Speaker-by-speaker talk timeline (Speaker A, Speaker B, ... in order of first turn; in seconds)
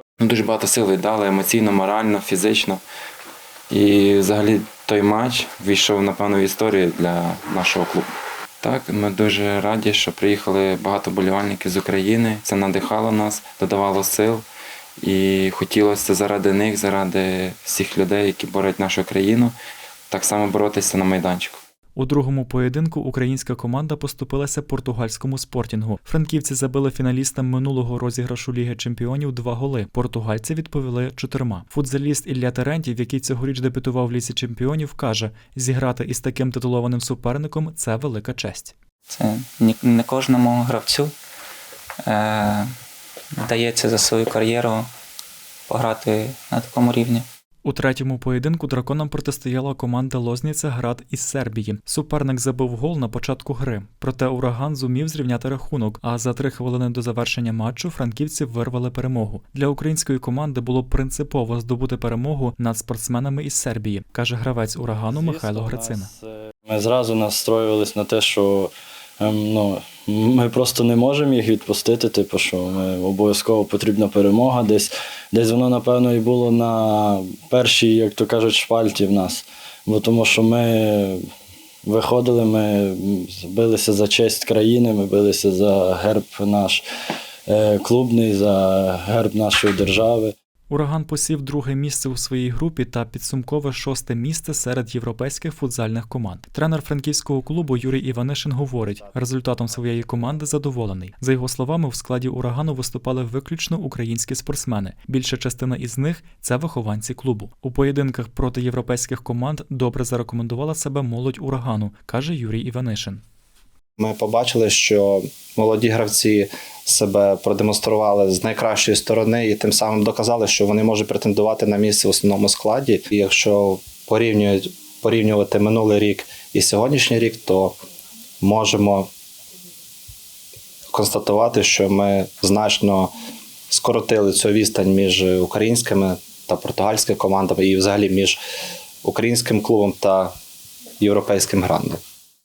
Speaker A: 0.2-2.8, 3.7-8.1, 8.6-14.4, 15.0-19.5, 20.1-21.6
Speaker B: 21.9-38.7, 47.6-66.1, 90.7-113.2
Speaker C: 39.1-41.1, 42.0-42.7, 43.4-44.9, 45.7-47.2
Speaker D: 65.1-81.2, 81.8-86.8, 87.5-90.3, 99.1-100.2
Speaker E: 114.0-127.7, 128.4-129.1, 130.9-133.1, 133.7-138.4, 139.0-140.3, 141.0-142.0